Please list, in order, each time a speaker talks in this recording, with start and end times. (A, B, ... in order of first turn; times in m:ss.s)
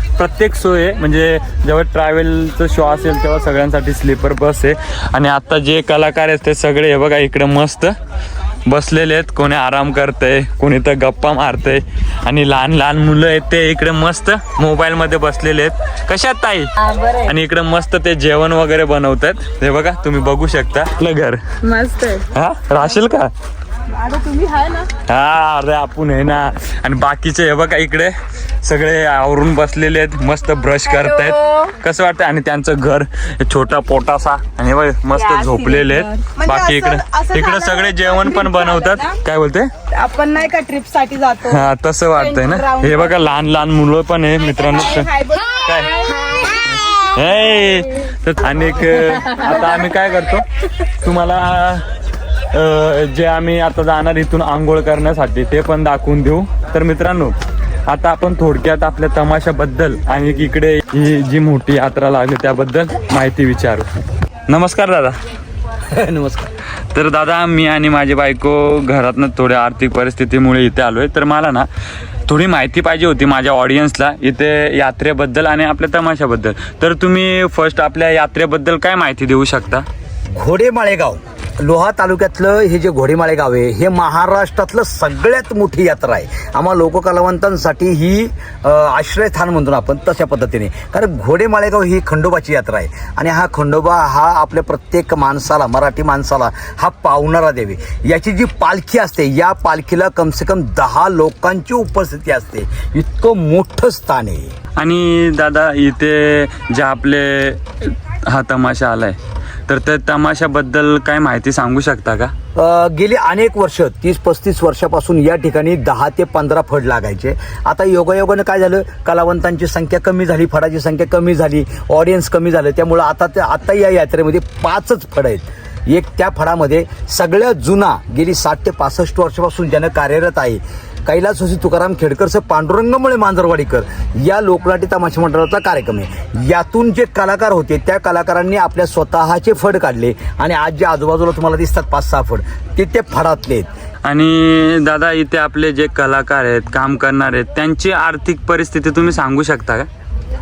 0:00.2-0:07.9 A
0:08.6-0:16.7 A
0:16.8-0:17.2 B
0:17.2-0:21.4 A
0:21.6-0:22.2 B
0:22.3-0:23.3 A
0:23.9-0:24.9 B
0:25.1-0:39.7 A
0:30.9-0:31.7 B
0:35.1-0:39.2 B
0:39.9-0:41.6 B
0:41.5-0:45.1 A
0:42.1-0:43.2 B
0:44.5-0:46.2 B
0:45.6-0:45.9 A
0:46.7-0:50.4 A
0:51.0-0:51.8 A
0:52.5-0:57.3 A
0:57.9-1:03.9 A
1:04.5-1:05.2 A
1:05.9-1:06.4 C
1:06.9-1:11.7 A
1:12.3-1:19.8 A
1:20.4-1:44.5 C
1:44.8-1:49.2 A
1:49.7-1:52.3 A
1:52.5-2:23.7 C
2:24.0-2:29.9 A